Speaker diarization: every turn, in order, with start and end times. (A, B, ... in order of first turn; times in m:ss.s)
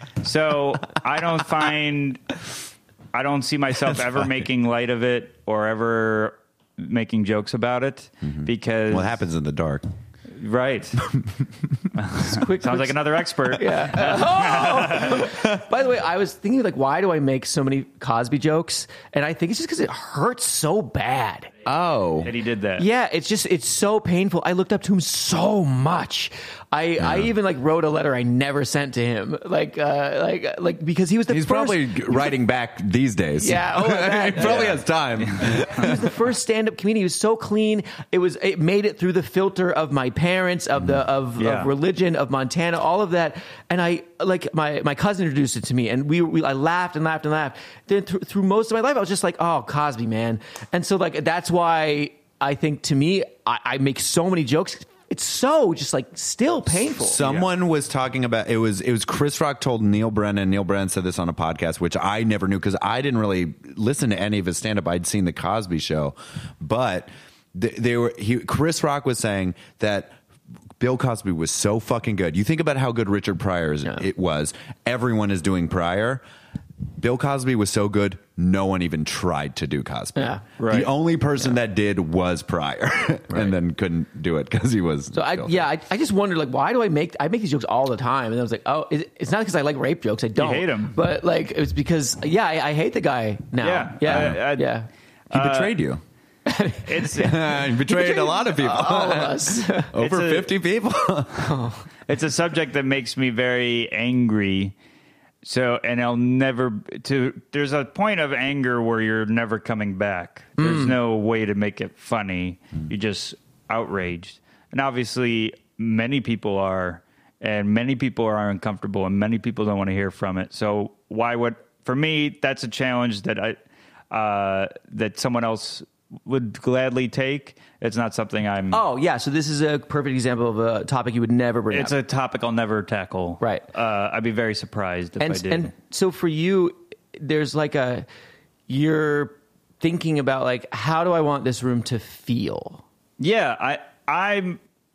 0:00.2-0:02.4 A
0:03.1-0:09.2 A
0:08.2-0:09.9 B
0:10.3-0:11.0 A
0:12.0-0:15.3 A
0:12.2-0:21.5 C
0:21.6-0:22.3 B
0:22.2-0:22.9 A
0:22.8-0:32.4 C
0:27.0-0:27.3 B
0:31.3-0:36.2 B
0:33.4-0:34.8 C
0:34.4-0:35.6 A
0:35.6-0:57.2 C
0:41.4-0:41.7 A
0:56.9-1:10.2 B
0:57.2-0:57.5 A
1:10.8-1:16.2 B
1:17.0-1:25.7 B
1:20.2-1:20.4 C
1:20.6-1:20.9 A
1:25.1-1:34.9 C
1:30.4-1:31.0 A
1:33.6-1:34.8 A
1:34.1-1:34.4 B
1:35.3-1:35.8 A
1:35.3-1:36.0 B
1:36.5-1:39.9 C
1:36.9-1:37.4 A
1:37.2-1:41.6 B
1:40.0-1:40.5 A
1:41.4-1:41.8 C
1:42.1-1:44.8 A
1:45.4-2:03.6 A
1:50.6-1:51.0 C
2:04.1-2:08.8 A
2:08.7-2:11.9 C
2:11.7-2:15.7 A
2:15.2-2:18.1 C
2:18.7-2:22.8 C
2:23.2-2:24.6 A